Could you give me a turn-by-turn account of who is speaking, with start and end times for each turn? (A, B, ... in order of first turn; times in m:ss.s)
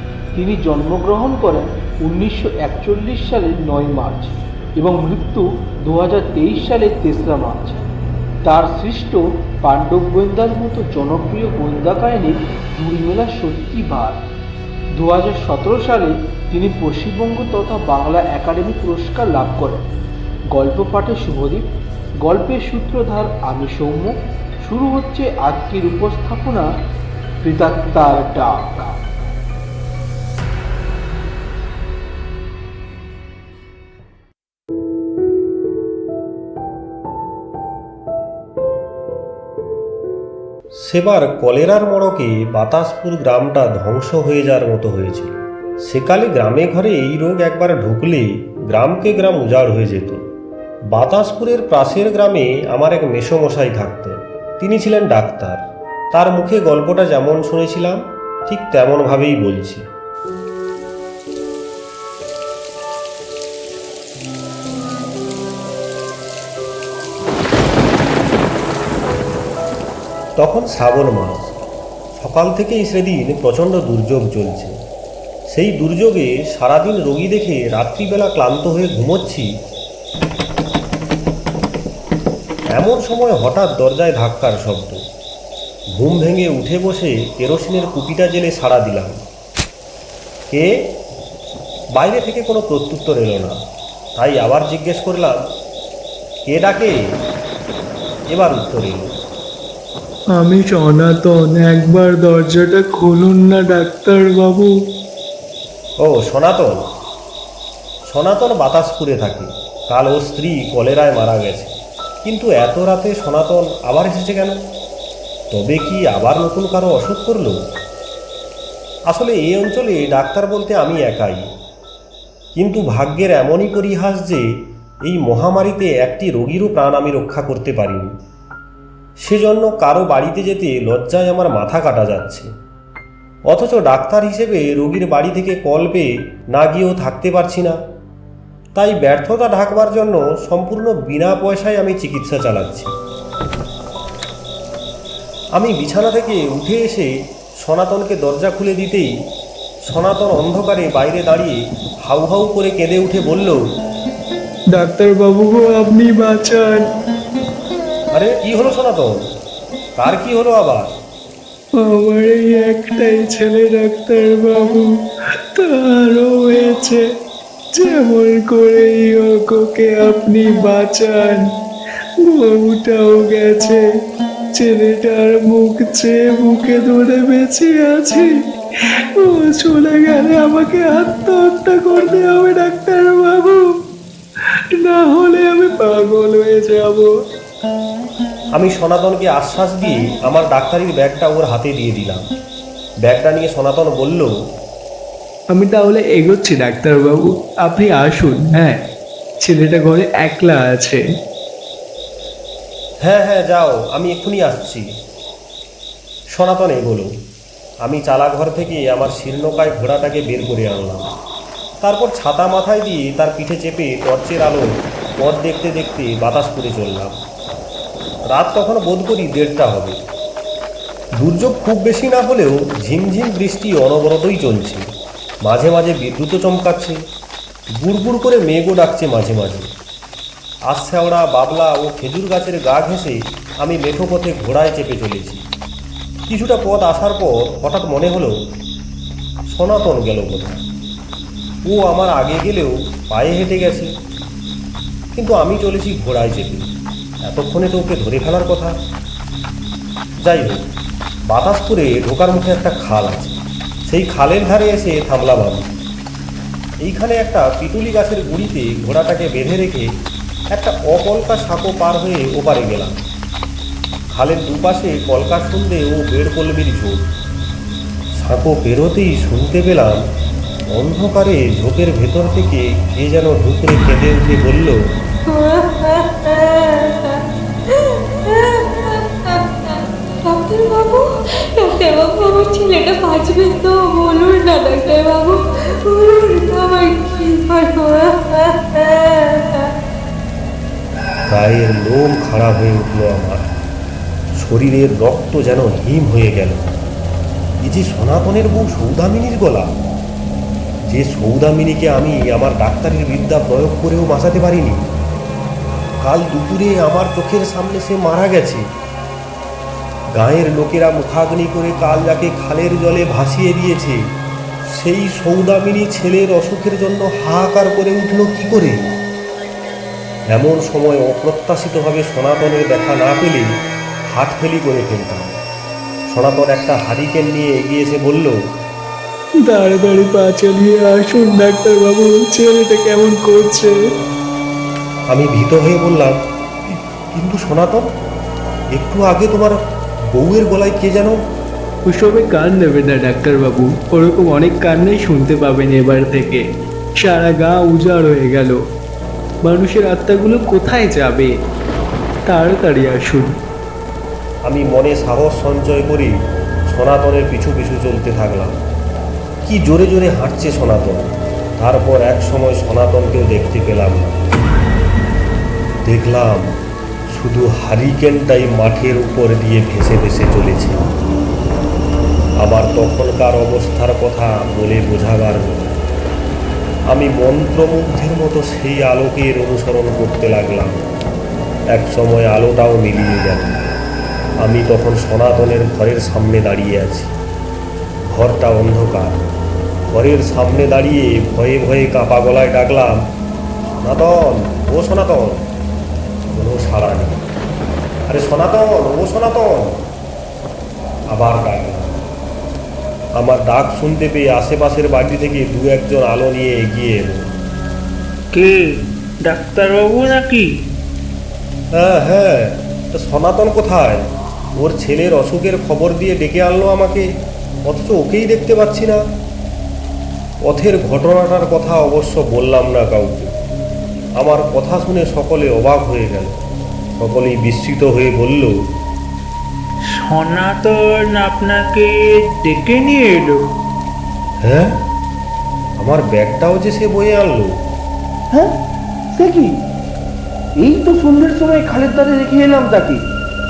0:00.3-0:07.8 A
0:08.4-0:14.2 A
0:15.0-0:19.8 A
0:20.5-0:21.6 A
0:22.2-0:26.7 A
0:27.4-0:29.0 A
0:40.8-0:50.2 B
0:50.9-0:59.8 B
1:10.4-1:11.6 B
1:12.1-1:14.7 B
1:15.5-1:19.5 B
1:22.7-1:25.0 B
1:25.9-1:29.1 B
1:32.0-1:33.6 B
1:34.2-1:35.4 B
1:36.4-1:37.0 B
1:38.3-1:39.1 B
1:40.3-1:44.7 C
1:46.0-1:46.8 B
1:48.1-1:51.7 B
1:52.2-1:54.6 B
1:55.5-1:57.6 B
1:59.1-2:01.5 B
2:02.5-2:04.4 B
2:05.1-2:08.1 B
2:09.2-2:12.5 B
2:13.5-2:17.8 B
2:18.7-2:22.9 B
2:25.6-2:29.1 B
2:29.9-2:33.6 B
2:34.7-2:36.8 C
2:38.1-2:39.2 B
2:40.0-2:40.9 B
2:41.8-2:44.9 C
2:45.6-2:47.0 C
2:47.8-2:51.4 C
2:52.3-2:53.8 C
2:54.6-2:58.3 C
2:59.2-3:03.6 C
3:04.8-3:07.1 C
3:08.5-3:12.2 B
3:13.0-3:14.3 B
3:15.5-3:18.8 C
3:19.4-3:21.0 C
3:23.0-3:24.8 B
3:26.4-3:27.1 B
3:27.8-3:31.1 B
3:31.8-3:37.1 B
3:38.3-3:40.0 B
3:41.2-3:44.8 B
3:45.4-3:47.0 B
3:47.8-3:49.7 B
3:50.7-3:55.4 B
3:56.3-3:58.3 B
3:59.5-4:00.6 B
4:01.7-4:03.9 B
4:05.1-4:06.7 B
4:07.2-4:08.7 B
4:10.2-4:10.7 B
4:11.3-4:15.6 B
4:16.8-4:19.9 B
4:20.5-4:22.9 B
4:24.1-4:27.0 B
4:28.2-4:30.0 B
4:30.7-4:34.8 B
4:35.3-4:37.1 D
4:38.2-4:49.7 D
4:51.3-4:53.5 B
4:54.4-4:56.8 B
4:57.6-4:59.7 B
5:00.9-5:04.9 B
5:06.0-5:08.6 B
5:10.2-5:14.0 B
5:14.7-5:18.8 B
5:20.3-5:23.5 B
5:24.1-5:25.4 B
5:26.1-5:28.3 B
5:29.5-5:33.7 C
5:35.1-5:36.1 B
5:36.7-5:37.9 B
5:38.7-5:39.6 B
5:40.1-5:41.1 B
5:41.9-5:46.4 C
5:47.0-5:48.6 C
5:49.4-5:51.3 C
5:52.3-5:53.3 C
5:54.4-5:56.1 B
5:56.7-5:58.6 B
5:59.4-6:04.2 B
6:05.8-6:06.5 B
6:07.1-6:10.8 B
6:12.4-6:15.8 B
6:16.9-6:20.8 B
6:21.7-6:23.7 B
6:24.4-6:27.1 B
6:28.1-6:29.2 B
6:29.9-6:33.0 B
6:33.8-6:35.4 B
6:36.3-6:37.2 B
6:38.1-6:39.7 B
6:41.1-6:41.9 B
6:43.2-6:47.3 B
6:48.3-6:48.7 E
6:49.2-6:50.5 E
6:51.7-6:54.0 B
6:54.6-6:57.0 B
6:57.7-6:59.0 B
7:00.5-7:03.3 B
7:04.2-7:06.4 B
7:07.0-7:08.5 B
7:10.0-7:13.4 E
7:14.4-7:14.7 B
7:15.8-7:17.6 B
7:19.1-7:19.5 A
7:20.6-7:23.0 A